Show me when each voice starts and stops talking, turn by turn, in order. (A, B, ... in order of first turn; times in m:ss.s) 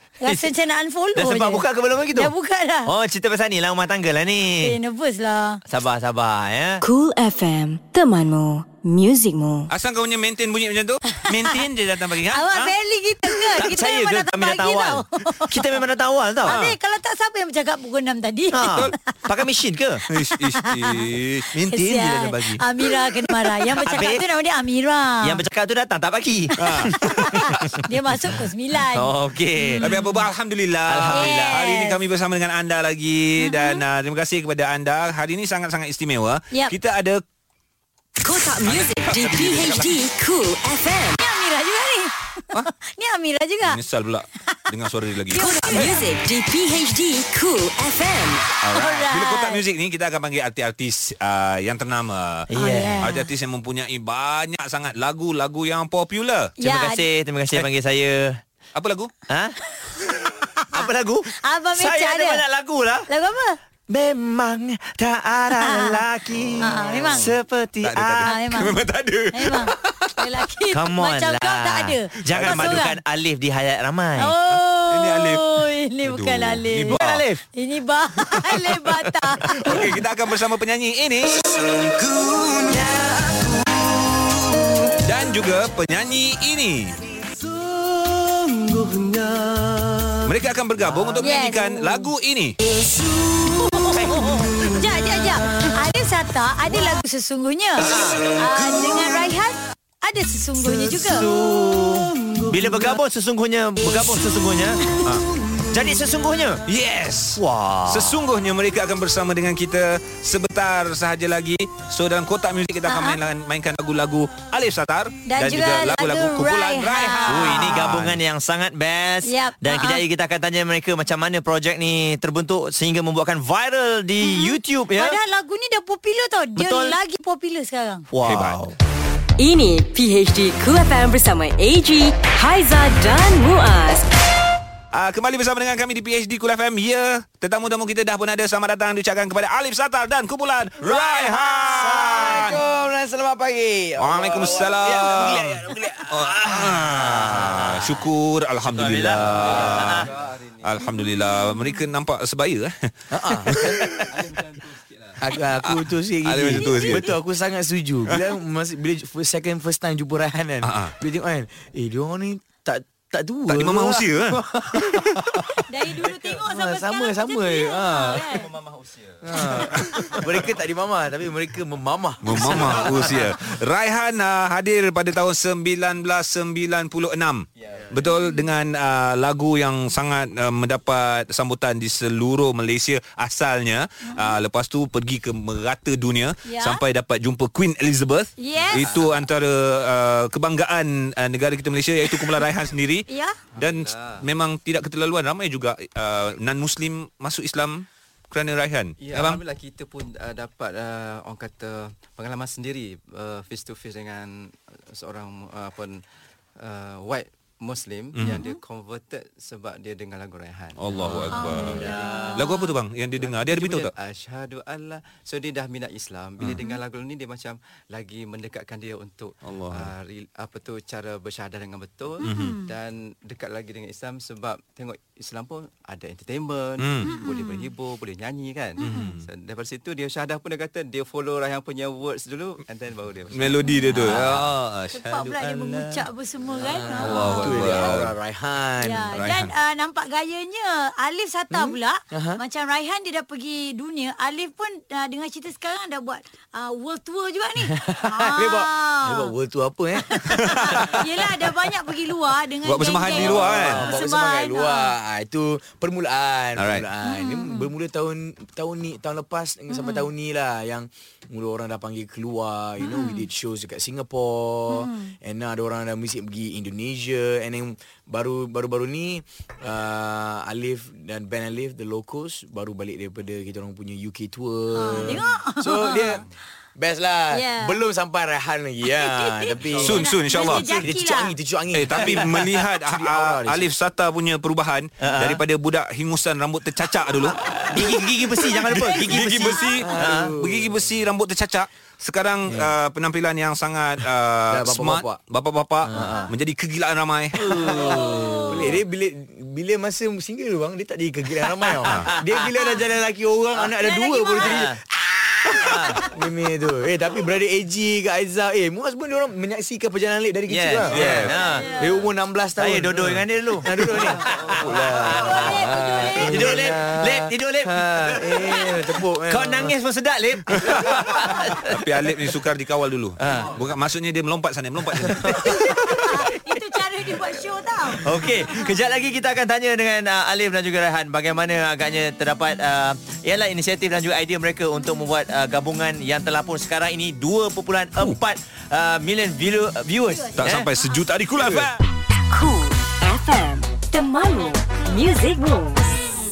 0:00.2-0:02.9 A
0:00.2-0:00.5 B
0:01.1-0:02.3 B
0:02.9-0:04.8 B
0:04.6-0:05.6 A
0:05.7-0:06.8 B
0:06.8-0:09.7 C
0:09.7-0:12.7 D
0:11.1-0:11.6 A
0:12.3-0:15.8 A
0:13.6-0:16.6 B
0:16.4-0:16.7 D
0:16.4-0:19.1 A
0:18.5-0:20.0 B
0:18.6-0:18.9 D
0:20.1-0:21.0 A
0:20.1-0:22.6 D
0:21.6-0:25.4 A
0:23.8-0:24.2 B
0:25.2-0:28.3 B
0:26.6-0:30.2 A
0:26.6-0:26.9 D
0:28.9-0:30.0 B
0:29.8-0:37.2 D
0:30.9-0:31.6 B
0:31.1-0:32.0 A
0:33.4-0:33.8 A
0:38.2-0:41.2 C
0:38.6-0:40.0 D
0:41.2-0:43.8 A
0:43.6-0:45.9 D
0:45.3-0:46.0 A
0:45.4-0:48.4 C
0:48.6-0:52.5 D
0:48.7-0:49.6 A
0:52.5-0:53.1 B
0:52.5-0:53.3 A
0:53.0-0:56.6 D
0:56.6-0:57.0 A
0:56.6-0:58.4 B
0:58.7-0:59.1 D
0:59.3-0:59.5 B
1:00.6-1:02.4 A
1:00.7-1:03.1 B
1:03.1-1:03.6 A
1:03.9-1:08.4 B
1:05.6-1:06.0 A
1:06.3-1:07.3 D
1:06.6-1:07.3 A
1:07.8-1:10.1 D
1:08.2-1:13.0 A
1:10.7-1:14.3 B
1:12.2-1:12.9 D
1:14.2-1:17.0 A
1:14.9-1:15.5 D
1:16.0-1:17.2 D
1:16.9-1:17.4 B
1:17.5-1:19.9 A
1:18.5-1:21.5 D
1:22.7-1:23.1 B
1:25.0-1:27.0 D
1:30.2-1:32.6 D
1:31.2-1:32.1 A
1:33.4-1:41.3 A
1:33.9-1:34.8 B
1:37.8-1:38.4 B
1:40.6-1:44.9 B
1:45.7-1:46.6 B
1:46.7-1:58.2 D
1:47.4-1:48.2 B
1:52.8-1:53.2 A
1:55.3-1:57.9 A
1:57.3-2:05.2 B
1:59.2-2:00.0 A
2:04.2-2:08.0 A
2:06.6-2:07.0 B
2:08.1-2:08.7 B
2:08.2-2:08.6 D
2:09.4-2:14.1 C
2:14.9-2:22.6 D
2:20.9-2:27.8 E
2:24.0-2:30.1 D
2:27.0-2:27.4 B
2:28.6-2:30.0 B
2:29.4-2:30.9 F
2:30.6-2:34.1 D
2:31.2-2:31.5 A
2:33.1-2:34.1 E
2:33.9-2:35.2 F
2:35.2-2:45.4 E
2:35.6-2:37.1 D
2:36.6-2:37.0 A
2:40.6-2:40.9 D
2:43.5-2:45.3 D
2:45.6-2:48.5 A
2:46.4-2:48.3 E
2:48.1-2:49.4 F
2:49.2-2:53.3 E
2:49.8-2:50.1 D
2:49.8-2:50.2 A
2:52.2-3:13.0 D
2:52.6-2:53.2 F
2:57.6-2:57.9 F
2:58.2-2:58.4 A
3:04.0-3:04.4 A
3:06.4-3:06.8 A
3:08.4-3:08.9 A
3:08.6-3:09.1 F
3:13.1-3:13.3 A
3:13.5-3:14.2 F
3:13.6-3:19.4 D
3:19.0-3:26.0 F
3:26.6-3:32.3 F
3:28.2-3:28.4 D
3:28.3-3:28.6 A
3:30.8-3:33.9 D
3:31.3-3:32.8 A
3:33.2-3:53.6 F
3:39.4-3:39.9 D
3:42.2-3:42.7 A
3:42.2-3:42.6 D
3:46.8-3:47.1 D
3:47.0-3:47.6 A
3:48.8-3:49.1 A
3:48.8-3:49.3 D
3:53.3-3:55.4 D
3:53.6-3:54.0 A
3:54.0-3:54.3 B
3:54.9-3:57.8 A
3:56.6-3:59.1 E
3:57.0-3:58.1 D
3:58.8-4:09.3 A
3:59.1-3:59.5 D
4:01.6-4:02.4 E
4:07.6-4:11.0 E
4:10.0-4:14.9 A
4:10.4-4:10.7 D
4:12.6-4:13.9 D
4:13.1-4:36.2 E
4:16.6-4:16.9 D
4:17.0-4:17.7 A
4:19.7-4:20.1 A
4:22.8-4:23.3 A
4:24.7-4:25.1 A
4:34.8-4:36.2 A
4:36.8-4:43.7 E
4:37.3-4:37.8 A
4:38.9-4:41.3 A
4:39.8-4:40.8 D
4:41.7-4:47.5 D
4:45.0-4:45.4 B
4:47.6-4:50.3 B
4:48.4-4:50.0 A
4:48.7-4:57.5 D
4:49.8-4:50.8 E
4:54.5-4:55.2 E
4:55.8-4:56.1 E
4:55.9-4:56.3 B
4:57.4-4:58.6 B
4:57.5-5:19.7 E
4:57.7-4:58.8 A
5:01.4-5:02.4 B
5:01.8-5:02.1 D
5:03.6-5:04.6 A
5:04.4-5:04.8 B
5:05.6-5:06.0 B
5:05.8-5:06.1 A
5:10.5-5:11.6 B
5:10.9-5:11.4 D
5:11.1-5:12.0 A
5:12.6-5:15.6 B
5:14.3-5:15.1 F
5:15.1-5:16.6 A
5:16.2-5:18.6 B
5:19.3-5:21.7 B
5:20.5-5:20.9 D
5:21.5-5:25.5 D
5:23.2-5:23.6 B
5:25.0-5:26.3 B
5:25.4-5:28.7 A
5:27.9-5:40.7 B
5:40.0-5:41.0 A
5:40.3-5:41.8 D
5:41.4-5:41.7 B
5:42.3-5:46.0 C